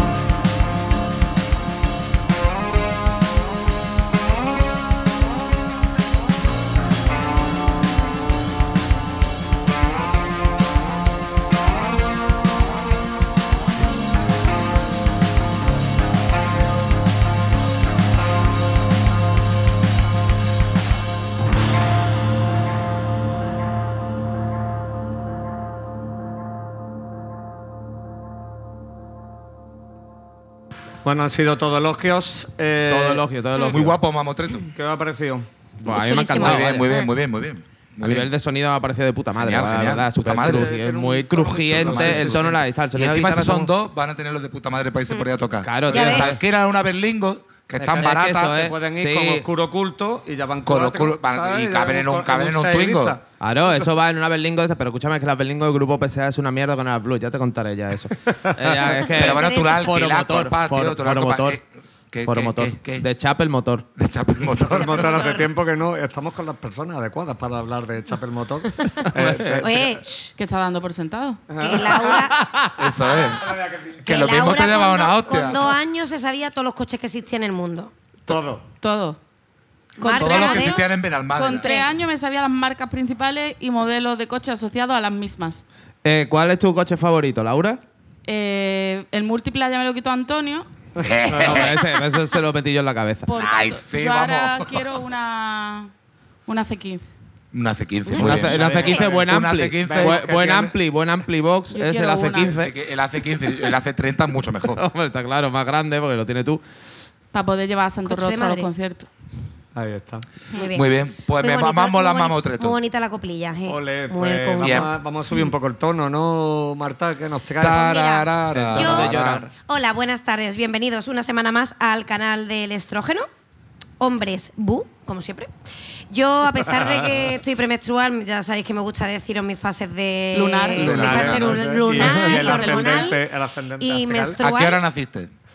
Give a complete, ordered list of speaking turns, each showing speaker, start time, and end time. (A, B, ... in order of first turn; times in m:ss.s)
0:31.0-0:33.2 A
0:32.9-0:34.0 B
0:33.7-0:34.7 C
0:34.7-0:35.4 A
0:35.8-0:36.9 B
0:35.9-0:37.1 D
0:36.3-0:38.3 C
0:38.0-0:43.7 B
0:39.4-0:40.7 C
0:40.4-0:42.6 A
0:41.8-0:48.3 C
0:45.6-0:46.4 B
0:45.9-0:46.3 D
0:47.8-0:53.8 A
0:48.0-0:49.4 B
0:50.6-0:53.2 C
0:53.4-1:01.6 B
0:58.3-0:58.9 A
0:59.0-1:03.0 C
0:59.1-0:59.9 D
1:02.2-1:03.8 B
1:04.0-1:05.4 C
1:04.5-1:09.8 A
1:04.9-1:05.4 D
1:09.0-1:09.7 B
1:09.6-1:10.3 D
1:10.4-1:11.4 E
1:11.5-1:12.2 A
1:11.6-1:12.4 D
1:12.1-1:13.0 B
1:12.8-1:13.5 C
1:13.2-1:14.3 A
1:14.0-1:15.6 C
1:14.0-1:17.9 D
1:18.3-1:18.6 A
1:18.8-1:19.2 E
1:20.0-1:20.9 D
1:20.0-1:25.6 E
1:20.1-1:21.7 C
1:21.6-1:21.9 D
1:26.0-1:27.8 B
1:28.2-1:30.7 E
1:31.0-1:31.7 A
1:31.0-1:31.8 C
1:31.4-1:33.3 B
1:33.3-1:35.9 E
1:33.4-1:34.8 C
1:36.4-1:37.0 E
1:37.5-1:40.2 C
1:38.1-1:42.7 B
1:38.3-1:40.8 A
1:41.7-1:42.5 E
1:42.4-1:44.8 C
1:44.6-1:46.6 B
1:47.3-1:49.1 E
1:48.0-1:48.7 D
1:49.7-1:50.3 A
1:50.5-1:54.9 D
1:50.7-1:52.8 C
1:53.7-1:57.9 A
1:54.6-1:54.9 C
1:57.6-1:59.5 C
1:57.7-2:03.3 D
1:58.5-1:58.8 A
1:58.7-1:59.5 B
2:04.0-2:05.5 D
2:06.1-2:13.2 D
2:10.3-2:11.4 E
2:10.8-2:14.4 A
2:10.8-2:12.0 C
2:12.3-2:13.1 E
2:13.8-2:14.8 D
2:14.4-2:15.3 C